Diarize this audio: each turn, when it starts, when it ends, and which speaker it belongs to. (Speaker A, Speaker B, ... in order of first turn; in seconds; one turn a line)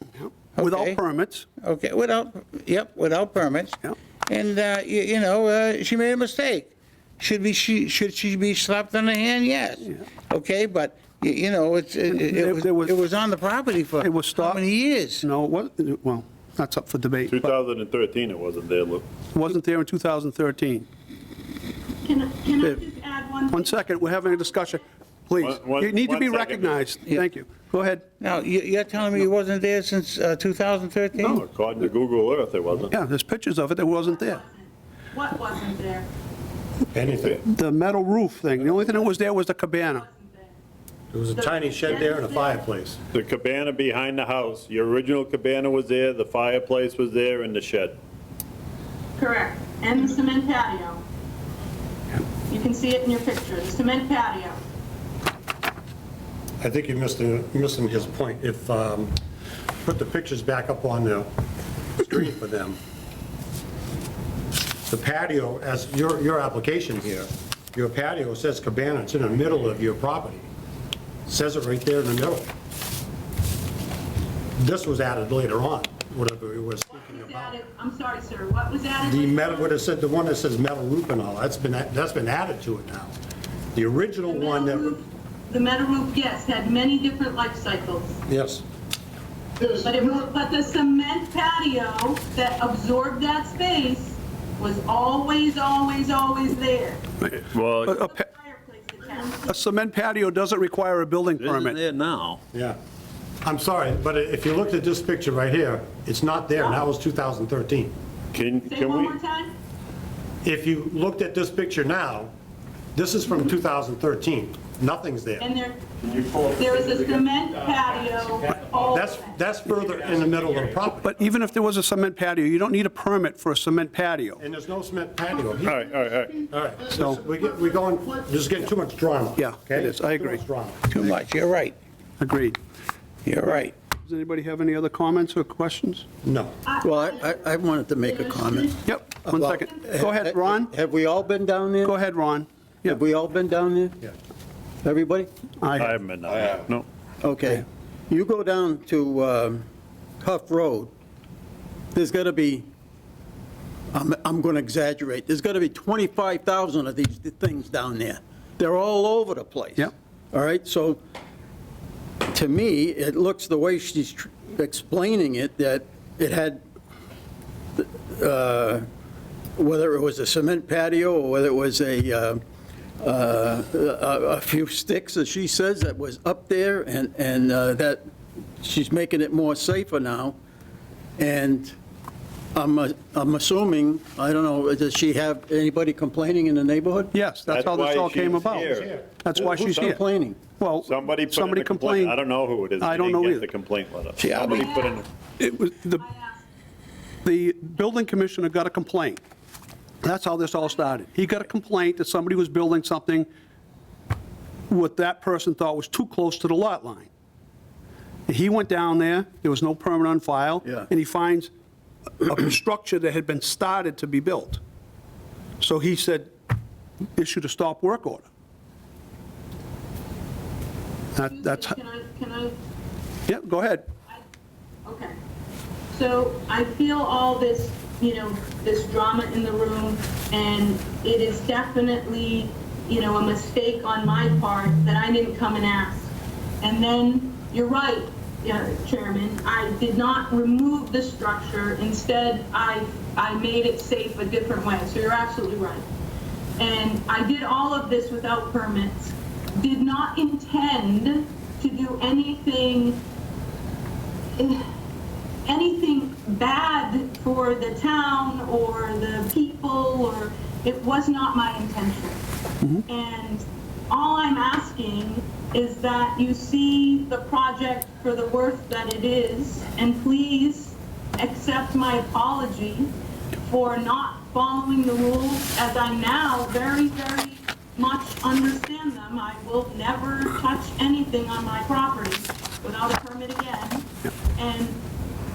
Speaker A: 0.1-1.5
Speaker B: 0.6-0.9
Speaker B: 1.6-15.2
Speaker A: 12.1-12.9
Speaker A: 14.0-14.6
Speaker A: 15.2-17.5
Speaker C: 17.3-19.1
Speaker A: 19.3-20.9
Speaker D: 22.0-23.8
Speaker A: 23.5-28.1
Speaker C: 25.4-26.9
Speaker B: 28.2-31.4
Speaker C: 31.2-32.9
Speaker A: 32.9-34.4
Speaker D: 34.0-36.1
Speaker E: 36.9-37.4
Speaker A: 37.4-40.0
Speaker D: 39.8-40.5
Speaker E: 41.1-43.0
Speaker D: 41.4-42.6
Speaker C: 43.1-48.0
Speaker D: 49.2-51.0
Speaker D: 52.5-54.6
Speaker E: 56.6-59.1
Speaker E: 59.8-61.3
Speaker E: 62.0-62.8
Speaker E: 64.9-70.5
Speaker E: 71.3-72.5
Speaker E: 74.5-77.6
Speaker D: 76.9-79.7
Speaker E: 79.0-83.1
Speaker E: 83.7-85.0
Speaker D: 84.3-88.2
Speaker E: 88.3-88.6
Speaker D: 89.6-97.0
Speaker C: 97.5-98.0
Speaker D: 97.8-99.6
Speaker A: 97.9-98.2
Speaker A: 99.5-101.8
Speaker C: 101.4-102.4
Speaker E: 102.5-102.8
Speaker E: 103.4-107.9
Speaker C: 108.3-109.1
Speaker D: 108.7-109.5
Speaker E: 110.4-112.3
Speaker E: 112.9-115.5
Speaker D: 115.4-115.8
Speaker C: 116.1-116.5
Speaker D: 116.4-119.4
Speaker E: 118.9-121.1
Speaker A: 121.0-124.4
Speaker E: 124.4-131.1
Speaker C: 125.6-126.4
Speaker A: 126.9-127.2
Speaker A: 129.4-130.4
Speaker B: 130.9-131.8
Speaker A: 132.2-132.6
Speaker B: 133.2-133.7
Speaker A: 133.5-136.1
Speaker E: 136.2-136.6
Speaker D: 136.7-137.0
Speaker F: 136.8-142.0
Speaker A: 138.8-140.7
Speaker A: 141.8-143.0
Speaker F: 142.8-144.1
Speaker F: 144.8-145.3
Speaker A: 145.6-145.9
Speaker C: 145.8-146.8
Speaker F: 147.2-149.6
Speaker F: 150.2-150.9
Speaker F: 151.9-152.7
Speaker F: 153.9-161.0
Speaker F: 162.3-166.6
Speaker F: 167.8-168.9
Speaker F: 169.6-172.4
Speaker F: 173.0-178.1
Speaker F: 178.6-180.4
Speaker F: 181.2-181.7
Speaker F: 182.5-187.1
Speaker A: 187.1-188.7
Speaker C: 187.5-190.0
Speaker E: 188.6-189.0
Speaker A: 189.2-190.0
Speaker F: 189.4-190.4
Speaker A: 190.6-192.2
Speaker C: 190.8-195.1
Speaker A: 192.8-193.5
Speaker D: 194.3-195.1
Speaker A: 195.4-196.0
Speaker D: 196.0-196.5
Speaker A: 197.2-199.2
Speaker A: 200.0-203.3
Speaker A: 204.7-207.1
Speaker A: 208.3-211.5
Speaker A: 212.2-214.6
Speaker A: 215.6-216.3
Speaker A: 217.2-218.2
Speaker A: 221.2-221.7
Speaker D: 221.2-222.6
Speaker A: 223.3-223.9
Speaker D: 224.8-225.1
Speaker D: 225.9-245.8
Speaker D: 246.6-253.0
Speaker D: 254.3-254.6
Speaker D: 255.4-262.2
Speaker D: 262.9-272.9
Speaker D: 273.4-284.8